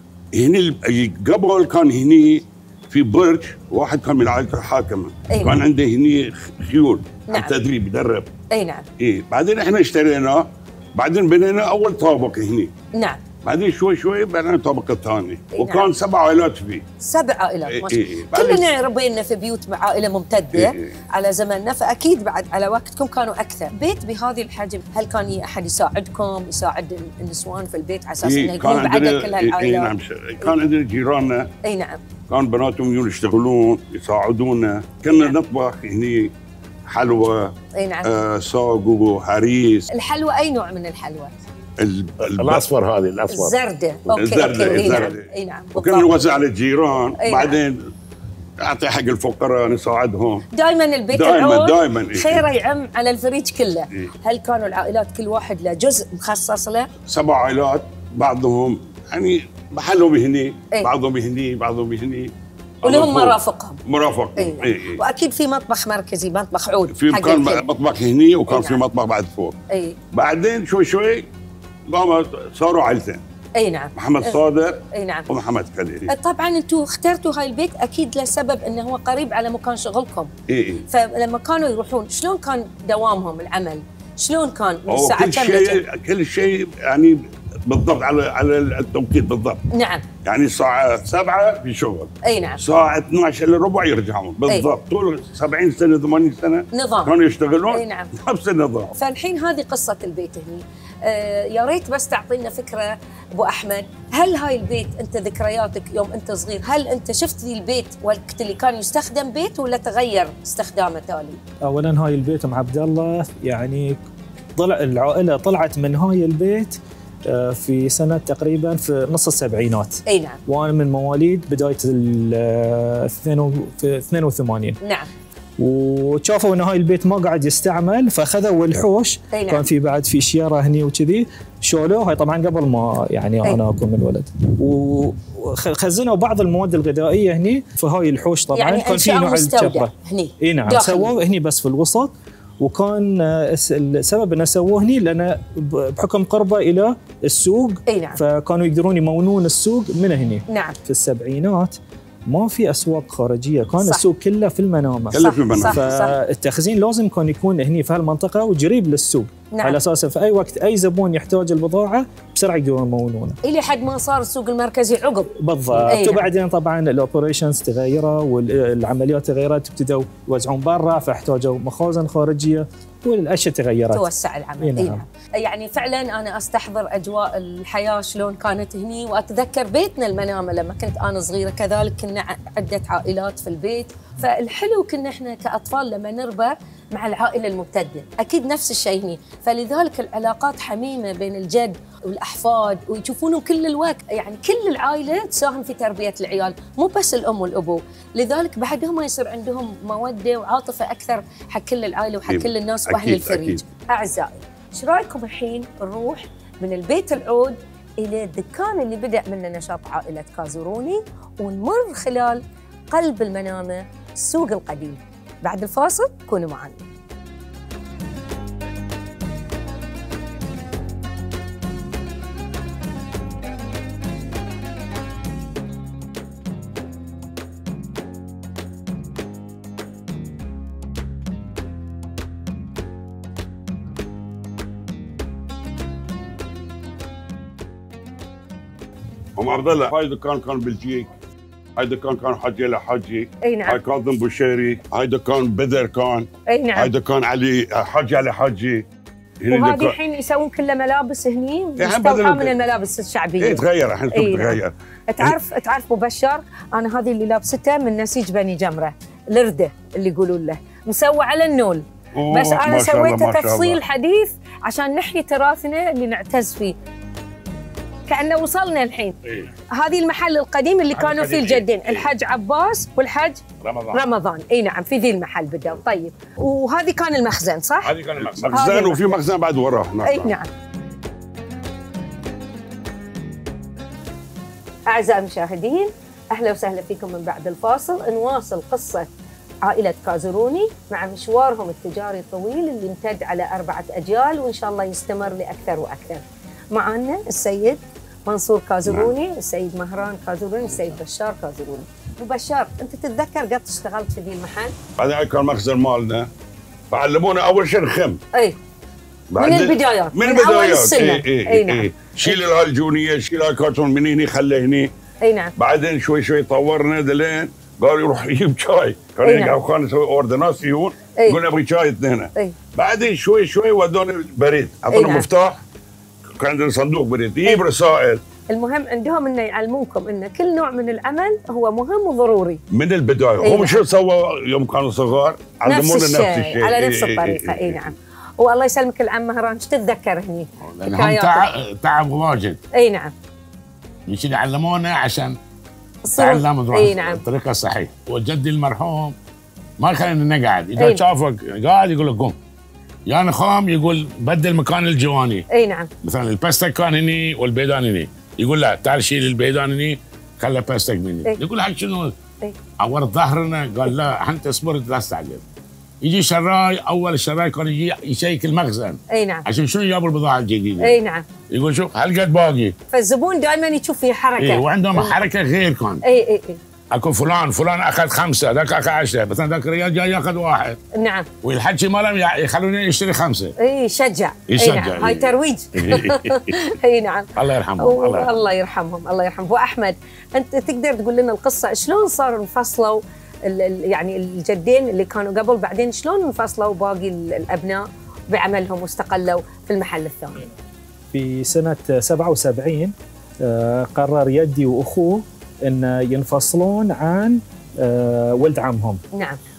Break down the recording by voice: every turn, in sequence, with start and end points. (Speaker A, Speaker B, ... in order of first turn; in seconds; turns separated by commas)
Speaker A: 0.3-8.3, Speaker B: 5.3-5.6, Speaker B: 7.3-7.5, Speaker B: 8.5-8.8, Speaker A: 9.0-12.7, Speaker B: 12.9-13.2, Speaker A: 13.4-16.8, Speaker B: 15.5-15.9, Speaker B: 17.0-30.5, Speaker A: 17.7-18.7, Speaker A: 20.5-20.9, Speaker A: 28.2-31.5, Speaker B: 31.6-32.0, Speaker A: 32.3-36.3, Speaker A: 36.9-39.9, Speaker B: 37.8-38.1, Speaker B: 39.9-41.4, Speaker A: 41.8-42.6, Speaker C: 42.4-43.5, Speaker B: 43.3-46.2, Speaker A: 44.1-47.8, Speaker C: 44.3-45.0, Speaker B: 47.2-47.6, Speaker A: 48.6-50.4, Speaker B: 50.5-56.9, Speaker A: 51.1-52.4, Speaker A: 57.0-65.0, Speaker B: 62.8-63.8, Speaker B: 64.3-67.6, Speaker A: 66.9-69.5, Speaker B: 68.5-68.8, Speaker B: 69.7-70.0, Speaker A: 70.1-71.3, Speaker A: 71.9-73.2, Speaker B: 73.5-74.3, Speaker A: 74.0-76.1, Speaker B: 74.9-75.3, Speaker B: 76.1-80.3, Speaker A: 80.5-80.8, Speaker B: 80.9-85.8, Speaker A: 84.9-89.6, Speaker B: 89.7-90.0, Speaker A: 90.2-98.9, Speaker B: 92.2-92.6, Speaker B: 96.7-97.1, Speaker B: 97.7-98.1, Speaker B: 98.9-111.4, Speaker D: 111.6-114.0, Speaker D: 114.5-124.8, Speaker B: 120.0-120.4, Speaker B: 124.8-125.1, Speaker D: 125.6-151.7, Speaker B: 129.3-129.7, Speaker B: 138.5-141.1, Speaker B: 147.8-148.2, Speaker B: 150.5-150.8, Speaker D: 152.3-163.4, Speaker A: 155.1-155.9, Speaker B: 155.2-156.2, Speaker B: 159.5-159.8, Speaker B: 163.4-165.3, Speaker D: 165.3-174.1, Speaker B: 165.9-166.3, Speaker B: 173.9-216.8, Speaker D: 174.6-175.0, Speaker A: 202.2-203.6, Speaker A: 239.3-241.1, Speaker A: 241.8-248.8, Speaker B: 243.4-243.8, Speaker B: 246.5-246.9, Speaker A: 249.4-249.9, Speaker B: 249.5-266.7, Speaker A: 251.8-252.5, Speaker A: 253.4-255.3, Speaker A: 262.1-263.8, Speaker B: 268.1-269.1, Speaker B: 269.7-277.9, Speaker C: 270.9-272.1, Speaker C: 273.6-274.0, Speaker C: 277.8-278.6, Speaker A: 278.1-280.4, Speaker B: 278.5-279.2, Speaker B: 280.0-280.5, Speaker B: 284.9-289.1, Speaker B: 289.6-304.8, Speaker A: 298.9-299.1, Speaker A: 305.0-306.3, Speaker A: 306.9-308.2, Speaker A: 309.3-314.9, Speaker B: 309.4-312.4, Speaker B: 315.2-315.5, Speaker A: 315.6-325.6, Speaker B: 319.2-319.6, Speaker B: 324.9-325.3, Speaker A: 326.4-328.2, Speaker B: 328.5-332.6, Speaker A: 332.7-337.9, Speaker B: 333.4-333.8, Speaker B: 335.6-341.4, Speaker C: 340.6-342.6, Speaker B: 342.7-343.1, Speaker C: 344.1-345.4, Speaker B: 346.0-347.2, Speaker C: 346.1-349.1, Speaker C: 349.8-352.3, Speaker C: 353.1-355.4, Speaker B: 355.5-355.9, Speaker C: 356.0-362.1, Speaker C: 362.8-365.4, Speaker C: 366.0-371.0, Speaker B: 369.1-369.4, Speaker B: 370.8-371.2, Speaker C: 371.5-372.7, Speaker B: 372.9-375.1, Speaker C: 374.4-376.0, Speaker B: 376.0-376.6, Speaker C: 376.9-380.8, Speaker B: 380.9-381.3, Speaker C: 381.4-383.5, Speaker B: 383.6-400.4, Speaker C: 384.5-386.6, Speaker C: 387.4-388.3, Speaker D: 401.1-409.0, Speaker B: 409.1-409.4